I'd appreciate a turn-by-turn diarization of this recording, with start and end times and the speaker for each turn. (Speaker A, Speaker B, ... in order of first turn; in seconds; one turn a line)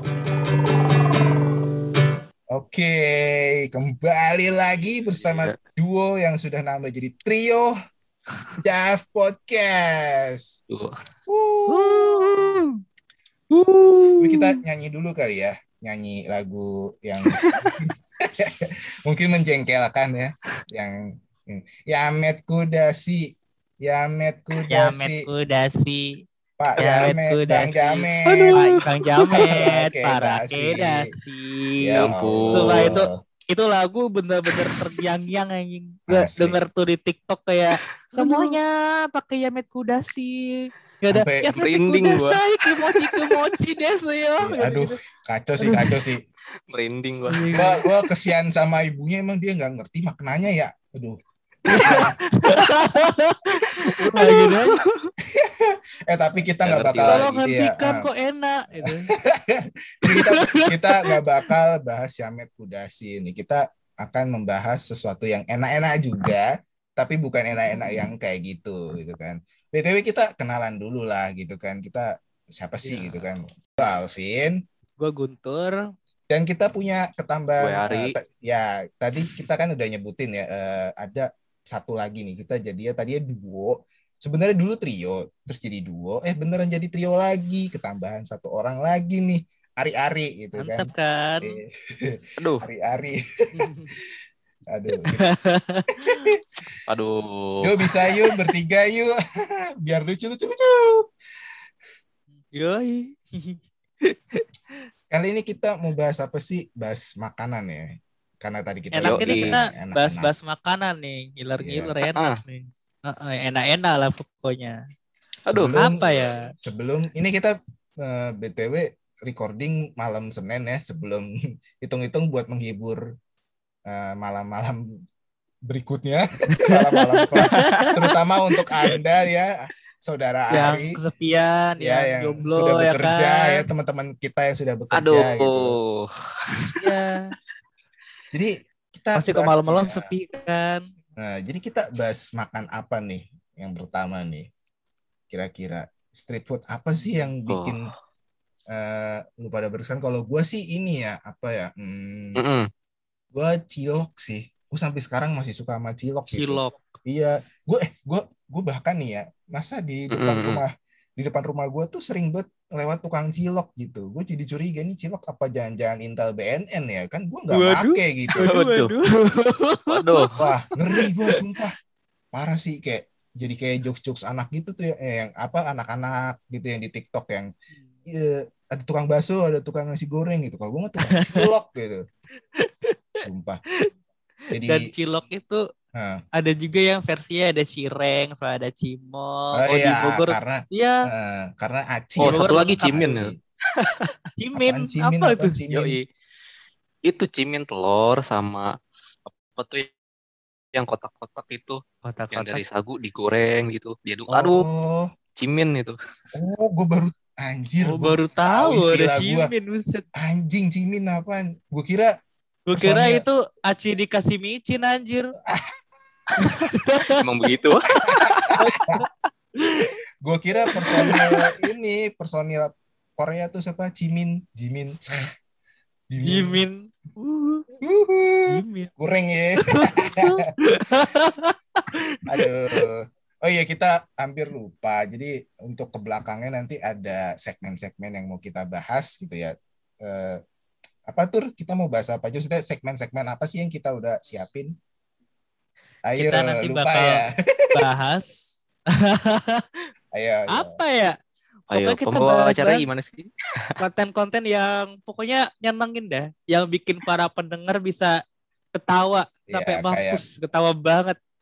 Speaker A: 2.5-7.7
Speaker B: 5.1-5.6
Speaker A: 8.6-10.6
Speaker B: 10.7-11.0
Speaker A: 11.3-12.2
Speaker C: 11.7-12.7
Speaker C: 13.5-14.6
Speaker A: 14.2-25.3
Speaker B: 17.3-17.8
Speaker C: 24.7-26.2
Speaker A: 26.6-28.7
Speaker C: 26.8-45.0
Speaker B: 28.3-29.5
Speaker A: 29.3-31.0
Speaker A: 31.8-33.2
Speaker B: 32.0-32.9
Speaker A: 36.1-36.6
Speaker B: 38.2-38.6
Speaker A: 41.1-41.5
Speaker B: 41.5-43.2
Speaker A: 44.4-46.2
Speaker C: 45.6-45.9
Speaker B: 46.7-47.7
Speaker C: 47.3-47.8
Speaker A: 47.5-52.1
Speaker B: 51.8-52.8
Speaker C: 51.9-53.4
Speaker B: 53.5-55.1
Speaker C: 54.0-54.8
Speaker A: 55.3-58.1
Speaker B: 56.6-57.4
Speaker C: 57.0-59.1
Speaker A: 58.8-74.6
Speaker C: 60.1-61.2
Speaker C: 72.8-73.3
Speaker C: 75.0-75.8
Speaker A: 76.3-90.9
Speaker B: 77.6-78.1
Speaker C: 90.6-91.6
Speaker A: 91.4-93.2
Speaker B: 92.4-92.7
Speaker C: 93.5-94.0
Speaker A: 94.7-95.3
Speaker C: 95.2-96.3
Speaker A: 96.0-96.4
Speaker B: 96.9-97.9
Speaker A: 97.6-101.1
Speaker C: 102.5-104.5
Speaker A: 105.1-110.3
Speaker C: 109.0-114.8
Speaker B: 109.0-109.6
Speaker A: 111.6-111.9
Speaker B: 112.0-112.4
Speaker B: 115.5-115.8
Speaker A: 115.5-121.3
Speaker C: 115.8-116.5
Speaker A: 121.8-123.0
Speaker A: 123.9-124.8
Speaker A: 125.7-131.0
Speaker C: 126.7-127.9
Speaker B: 127.5-127.9
Speaker C: 130.5-133.7
Speaker A: 131.8-135.8
Speaker B: 134.9-136.9
Speaker C: 136.8-137.2
Speaker A: 138.3-140.1
Speaker C: 139.2-140.9
Speaker A: 141.2-144.5
Speaker A: 145.3-147.9
Speaker B: 147.5-147.9
Speaker A: 148.7-152.4
Speaker B: 152.4-152.7
Speaker A: 153.3-168.5
Speaker C: 156.3-156.8
Speaker B: 160.1-160.6
Speaker C: 167.5-170.3
Speaker B: 168.4-168.9
Speaker B: 169.9-170.3
Speaker A: 170.4-171.8
Speaker C: 170.9-171.3
Speaker A: 172.3-177.5
Speaker A: 178.1-182.0
Speaker C: 181.0-181.5
Speaker C: 182.6-183.2
Speaker A: 183.2-183.6
Speaker A: 184.5-184.9
Speaker C: 184.6-185.6
Speaker A: 185.9-186.2
Speaker C: 186.4-191.1
Speaker A: 189.6-193.4
Speaker B: 192.2-194.1
Speaker C: 192.2-193.2
Speaker C: 194.4-195.6
Speaker A: 194.6-196.0
Speaker B: 195.7-196.1
Speaker B: 197.1-198.7
Speaker B: 199.3-199.9
Speaker B: 200.8-201.8
Speaker C: 202.0-202.6
Speaker B: 202.3-204.7
Speaker A: 204.3-205.1
Speaker B: 205.4-206.0
Speaker A: 206.3-209.5
Speaker C: 207.8-210.1
Speaker A: 210.2-212.1
Speaker C: 212.7-215.3
Speaker A: 212.8-213.2
Speaker C: 216.4-217.2
Speaker B: 217.2-218.5
Speaker A: 218.0-219.0
Speaker C: 218.6-219.1
Speaker C: 219.6-219.9
Speaker A: 220.2-225.3
Speaker C: 220.7-221.3
Speaker A: 226.1-226.6
Speaker C: 226.2-227.7
Speaker A: 227.8-230.4
Speaker C: 228.5-228.9
Speaker C: 229.6-232.9
Speaker A: 232.3-240.4
Speaker A: 241.1-244.7
Speaker A: 246.1-247.8
Speaker C: 246.2-247.2
Speaker C: 247.7-249.7
Speaker A: 250.1-250.8
Speaker C: 250.5-251.2
Speaker C: 251.7-252.9
Speaker B: 251.7-253.3
Speaker C: 253.8-258.1
Speaker C: 258.8-261.2
Speaker A: 259.5-260.2